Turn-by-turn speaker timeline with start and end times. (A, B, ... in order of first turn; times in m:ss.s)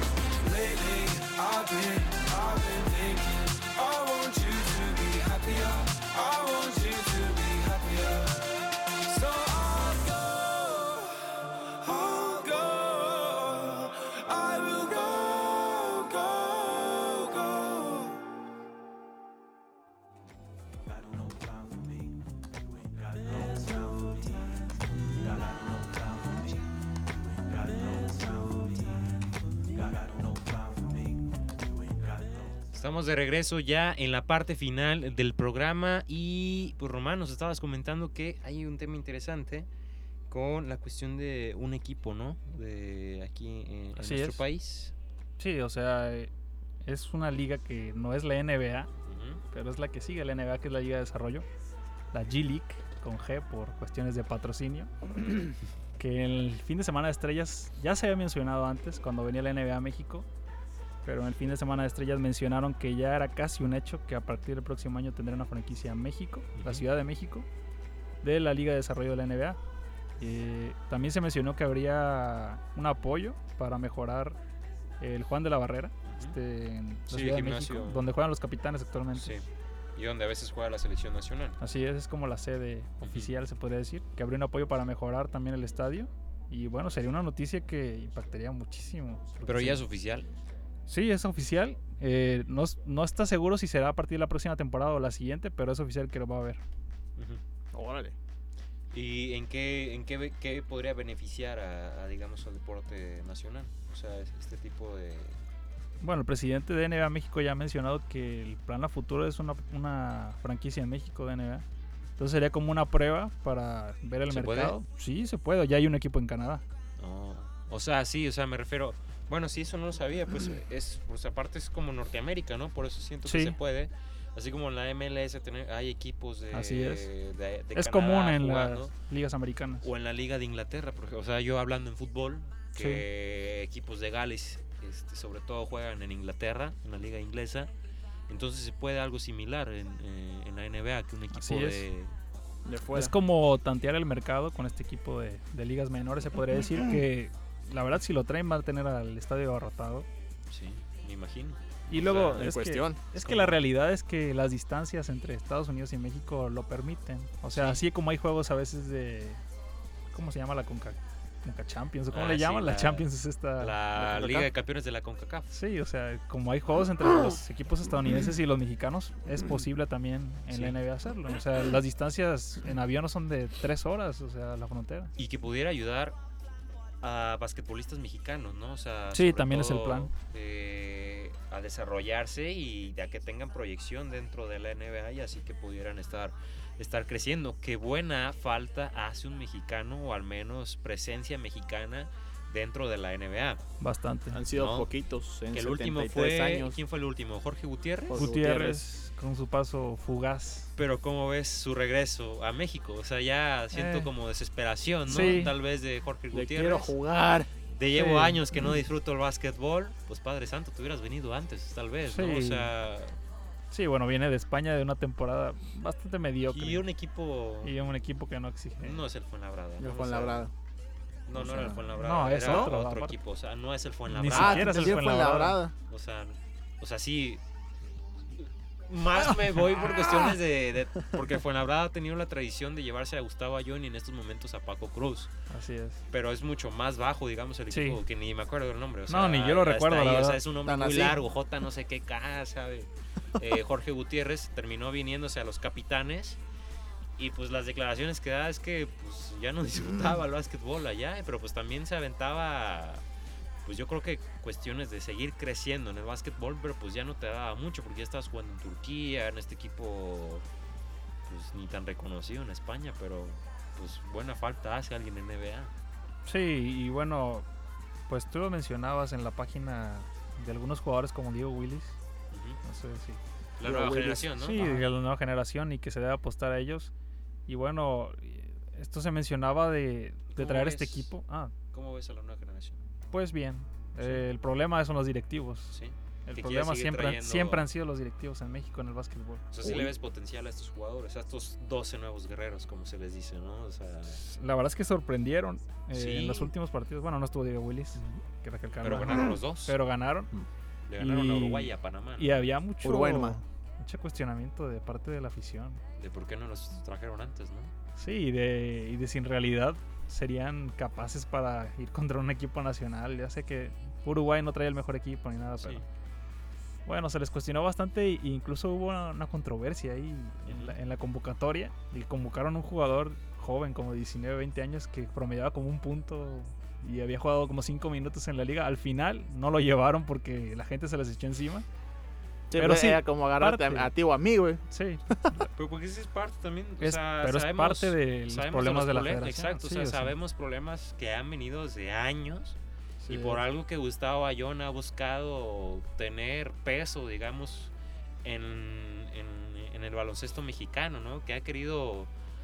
0:00.4-0:18.2 A
0:23.3-0:23.6 B
0:32.7-0:39.7 C
0:40.3-0:44.9 C
0:44.0-0:44.4 D
0:45.4-0:46.3 D
0:46.8-0:48.9 D
0:49.1-0:49.4 C
0:49.5-0:51.5 D
0:52.1-1:00.3 D
1:01.0-1:07.5 D
1:06.6-1:06.9 C
1:08.2-1:09.6 D
1:10.2-1:14.4 D
1:15.0-1:19.4 D
1:16.0-1:16.4 C
1:17.1-1:18.1 C
1:19.1-1:21.6 C
1:21.6-1:29.8 D
1:23.0-1:23.3 C
1:29.4-1:30.3 C
1:30.9-1:36.6 D
1:37.2-1:37.4 C
1:37.7-1:38.2 B
1:38.9-1:45.4 C
1:46.0-1:51.6 D
1:52.2-1:56.6 D
1:54.3-1:54.8 C
1:57.0-2:08.9 C
2:03.3-2:03.6 D
2:06.5-2:07.1 D
2:07.8-2:09.9 D
2:09.8-2:17.7 C
2:12.8-2:13.0 D
2:18.3-2:22.2 C
2:21.3-2:21.9 D
2:22.6-2:23.1 B
2:22.9-2:30.1 D
2:30.5-2:32.5 C
2:31.9-2:39.4 D
2:32.2-2:33.0 B
2:33.2-2:33.6 C
2:37.5-2:37.8 C
2:40.1-2:44.5 D
2:42.1-2:45.6 C
2:45.5-2:55.1 D
2:50.5-2:50.8 C
2:55.2-2:56.2 C
2:57.0-3:13.6 C
2:59.1-3:00.1 D
3:13.8-3:14.4 D
3:14.3-3:16.8 B
3:14.5-3:14.9 C
3:15.5-3:18.3 C
3:18.1-3:18.8 B
3:18.1-3:20.7 D
3:20.8-3:27.0 C
3:23.7-3:24.1 D
3:25.1-3:25.6 D
3:26.3-3:27.5 B
3:27.7-3:33.2 C
3:28.0-3:28.8 D
3:32.1-3:32.7 D
3:33.7-3:36.8 D
3:36.5-3:37.8 C
3:37.6-3:39.0 D
3:38.8-3:40.5 C
3:39.8-3:40.5 B
3:41.3-3:45.0 C
3:41.4-3:42.7 B
3:41.8-3:43.2 D
3:44.1-3:45.6 D
3:44.3-3:45.7 B
3:45.9-3:47.4 C
3:48.3-3:55.3 C
3:55.5-3:56.0 D
3:56.1-4:06.4 C
3:57.7-3:58.0 D
3:59.1-4:00.4 D
4:00.6-4:01.2 B
4:07.2-4:13.0 C
4:13.6-4:20.5 C
4:21.3-4:25.7 C
4:26.2-4:27.5 D
4:28.1-4:32.0 D
4:32.3-4:32.6 C
4:32.6-4:33.2 D
4:33.6-4:34.9 C
4:33.6-4:34.3 B
4:34.4-4:36.9 D
4:37.5-4:41.6 D
4:40.3-4:41.1 C
4:41.7-4:42.8 C
4:43.1-4:49.7 D
4:44.0-4:44.3 C
4:45.7-4:47.7 C
4:49.5-4:54.2 C
4:49.6-4:49.9 B
4:54.1-5:00.3 D
4:55.9-4:56.5 C
4:58.8-4:59.8 C
5:00.9-5:02.5 C
5:01.0-5:05.8 D
5:02.8-5:03.4 B
5:06.0-5:07.7 C
5:08.0-5:15.8 D
5:15.6-5:15.9 C
5:16.9-5:31.7 D
5:20.5-5:20.8 C
5:32.5-5:34.6 B
5:32.6-5:33.9 D
5:34.7-5:35.5 D
5:35.5-5:42.6 C
5:36.8-5:40.2 D
5:43.0-5:43.4 D
5:43.1-5:52.1 C